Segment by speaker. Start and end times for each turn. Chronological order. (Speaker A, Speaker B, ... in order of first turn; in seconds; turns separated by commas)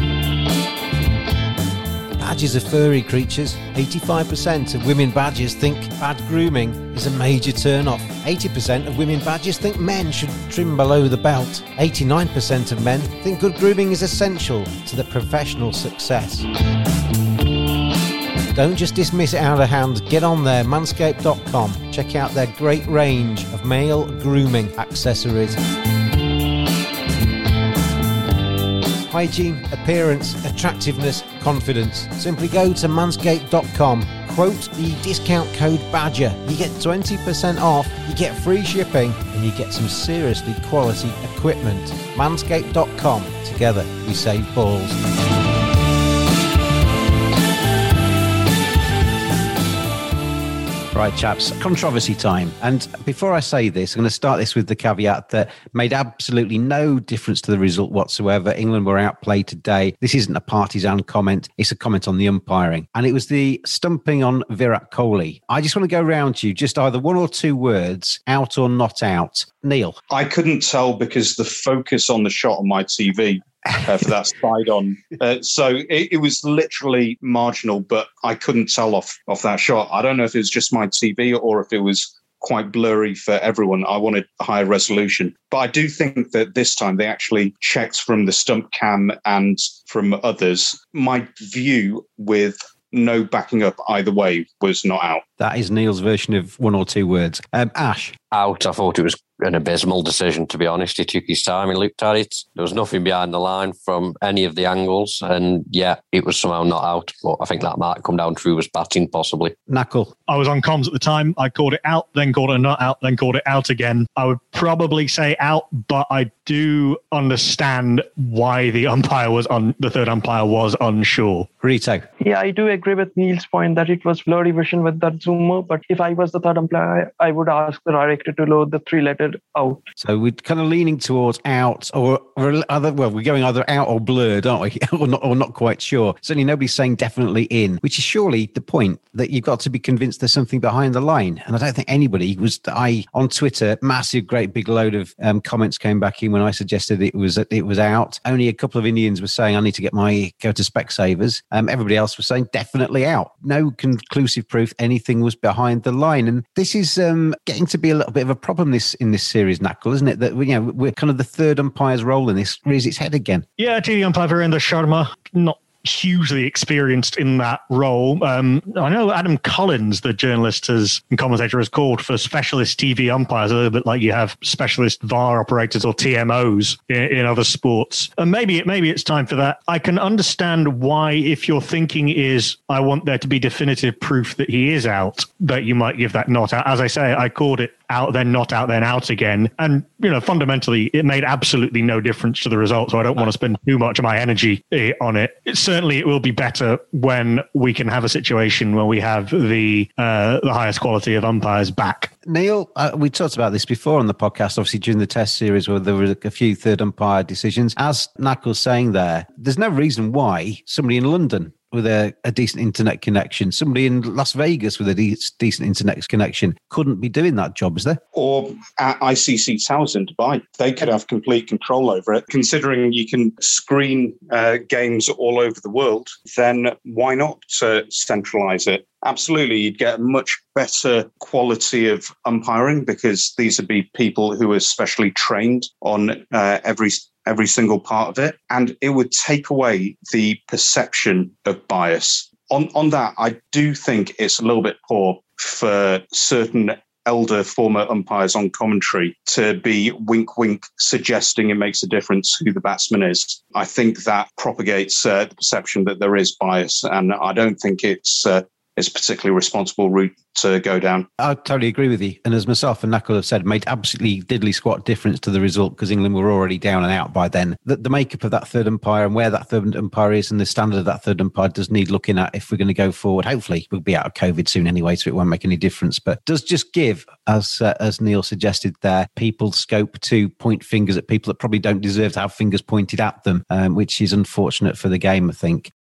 Speaker A: 2.2-16.5, Speaker A: 18.5-25.6, Speaker A: 29.0-45.0, Speaker A: 50.9-70.0, Speaker B: 70.1-95.2, Speaker A: 95.4-98.2, Speaker C: 98.3-109.5, Speaker A: 109.7-110.1, Speaker D: 110.3-121.5, Speaker A: 121.6-122.0, Speaker E: 122.2-129.8, Speaker A: 130.0-163.4, Speaker D: 163.6-202.1, Speaker A: 202.2-218.0, Speaker B: 218.1-261.1, Speaker A: 261.2-285.7